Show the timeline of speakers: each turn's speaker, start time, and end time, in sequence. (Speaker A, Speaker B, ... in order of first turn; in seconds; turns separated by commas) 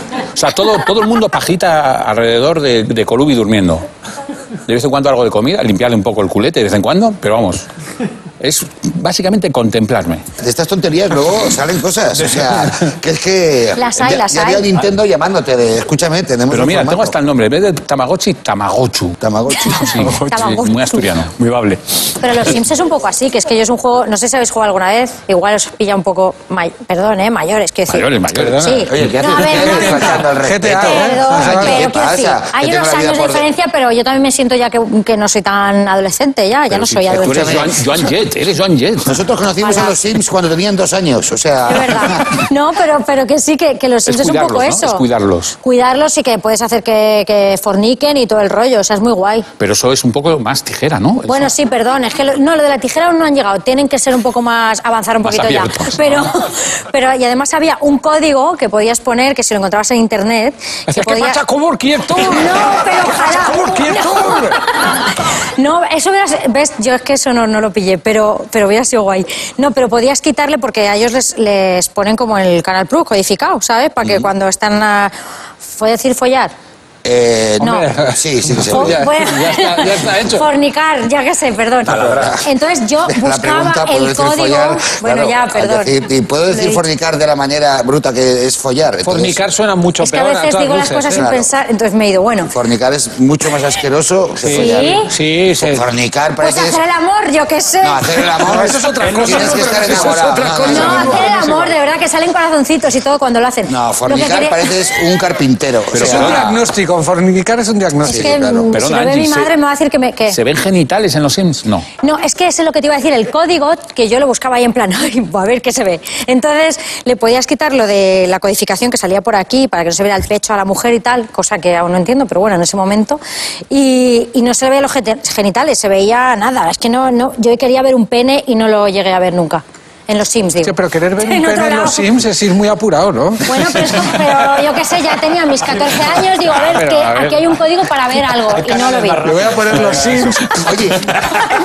Speaker A: 0.3-3.9, Speaker A: 4.7-7.7, Speaker A: 8.4-10.2, Speaker B: 10.4-17.1, Speaker C: 13.8-14.7, Speaker A: 16.5-19.2, Speaker B: 19.2-20.1, Speaker C: 19.6-21.0, Speaker A: 19.7-21.3, Speaker D: 21.4-21.8, Speaker C: 22.2-37.7, Speaker A: 27.9-28.6, Speaker E: 28.3-31.8, Speaker B: 28.9-33.5, Speaker A: 36.7-39.2, Speaker B: 37.1-37.8, Speaker B: 39.0-42.4, Speaker C: 39.6-40.0, Speaker C: 41.6-45.0, Speaker A: 44.0-45.5, Speaker C: 45.6-49.5, Speaker A: 49.6-51.5, Speaker C: 51.3-61.4, Speaker A: 55.2-56.3, Speaker E: 60.9-64.7, Speaker C: 62.2-75.1, Speaker C: 75.7-76.5, Speaker B: 77.0-79.0, Speaker E: 77.7-80.5, Speaker C: 78.7-86.0, Speaker B: 81.9-82.4, Speaker A: 81.9-82.4, Speaker B: 83.0-89.4, Speaker C: 86.5-86.8, Speaker E: 89.0-91.2, Speaker C: 90.0-92.5, Speaker B: 91.1-91.5, Speaker B: 92.5-95.0, Speaker E: 94.4-95.8, Speaker C: 94.5-95.1, Speaker B: 95.6-96.8, Speaker C: 96.4-98.3, Speaker B: 97.8-101.3, Speaker E: 98.4-101.6, Speaker C: 100.6-104.7, Speaker B: 103.7-106.6, Speaker A: 105.9-106.4, Speaker E: 105.9-108.3, Speaker B: 108.0-108.7, Speaker C: 108.0-110.4, Speaker A: 108.7-109.5, Speaker A: 110.3-111.9, Speaker C: 112.0-132.1, Speaker E: 130.6-134.2, Speaker C: 133.4-139.3, Speaker E: 136.6-137.6, Speaker D: 138.5-140.2, Speaker E: 139.2-140.8, Speaker B: 140.6-141.2